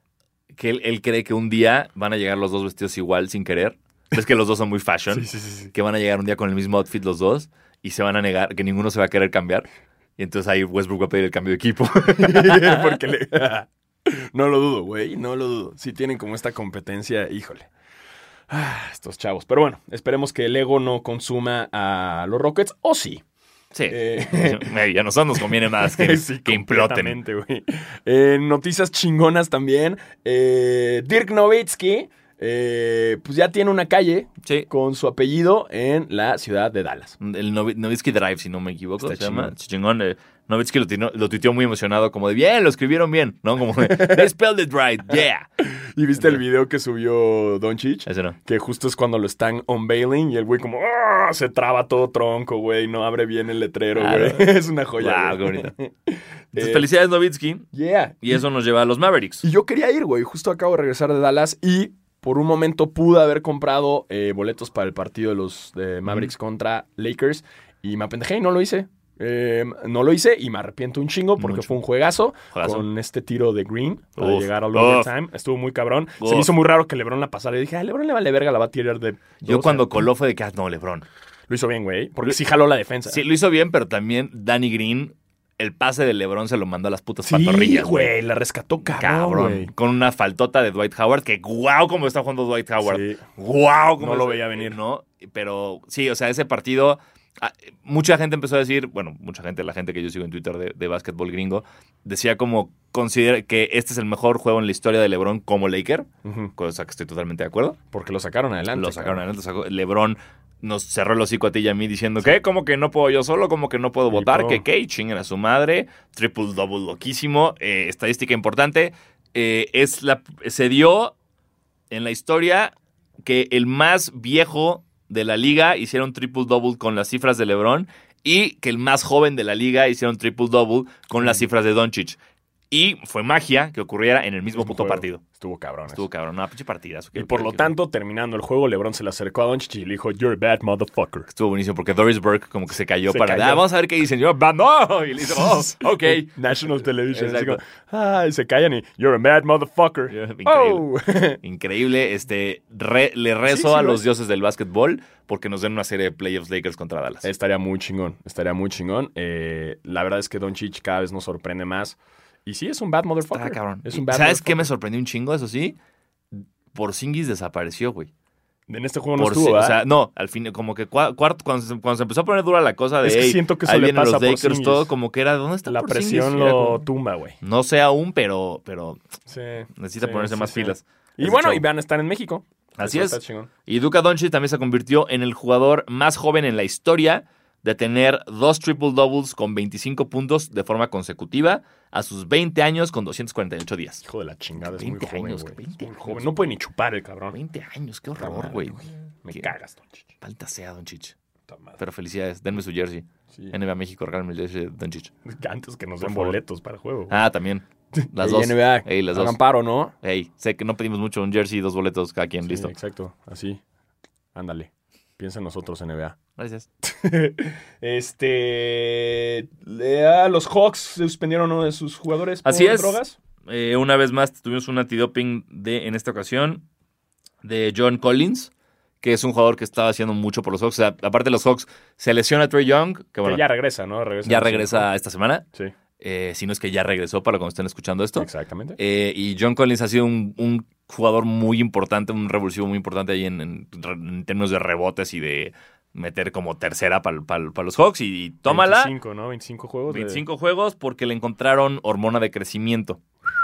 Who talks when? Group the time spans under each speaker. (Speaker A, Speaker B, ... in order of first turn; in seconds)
Speaker A: 0.5-9.7, 10.2-12.9, 23.7-27.2, 37.2-45.5, 48.0-48.4, 54.0-55.7, 56.5-57.7, 58.2-59.4, 71.4-71.8, 72.5-72.8, 74.2-75.1, 76.2-76.5, 79.4-81.0, 83.1-88.1, 88.9-107.8, 108.7-121.1, 121.9-132.2, 132.7-135.2, 135.9-137.7, 141.3-146.4, 147.1-147.6, 150.1-150.9, 151.4-157.3, 163.3-165.8, 166.3-168.1, 169.2-176.8, 177.4-179.0, 179.8-181.6, 182.8-194.0, 194.6-196.3, 197.3-199.5, 200.2-201.1, 201.8-205.1, 206.0-206.4, 207.1-209.4, 210.0-212.7, 216.4-216.7, 222.4-226.6, 227.4-233.4, 234.2-235.4, 236.0-248.9, 249.9-253.0
Speaker B: 5.1-5.7, 12.1-17.7, 18.5-23.2, 23.9-24.7, 25.7-37.1, 39.0-39.5, 43.8-44.3, 45.6-56.9, 57.7-58.4, 59.4-80.1, 81.5-83.2, 87.2-89.7, 92.8-93.2, 94.0-94.8, 106.2-106.5, 107.9-109.2, 114.1-114.6, 134.5-136.0, 137.1-141.3, 143.1-143.6, 145.2-151.4, 153.4-154.0, 157.2-164.7, 168.7-169.8, 173.0-174.9, 175.7-177.4, 179.3-183.5, 194.0-197.4, 198.2-200.1, 201.5-201.8, 205.2-207.1, 207.9-209.9, 212.4-213.6, 214.3-216.2, 216.8-223.2, 233.2-234.9, 238.2-238.8, 248.5-250.2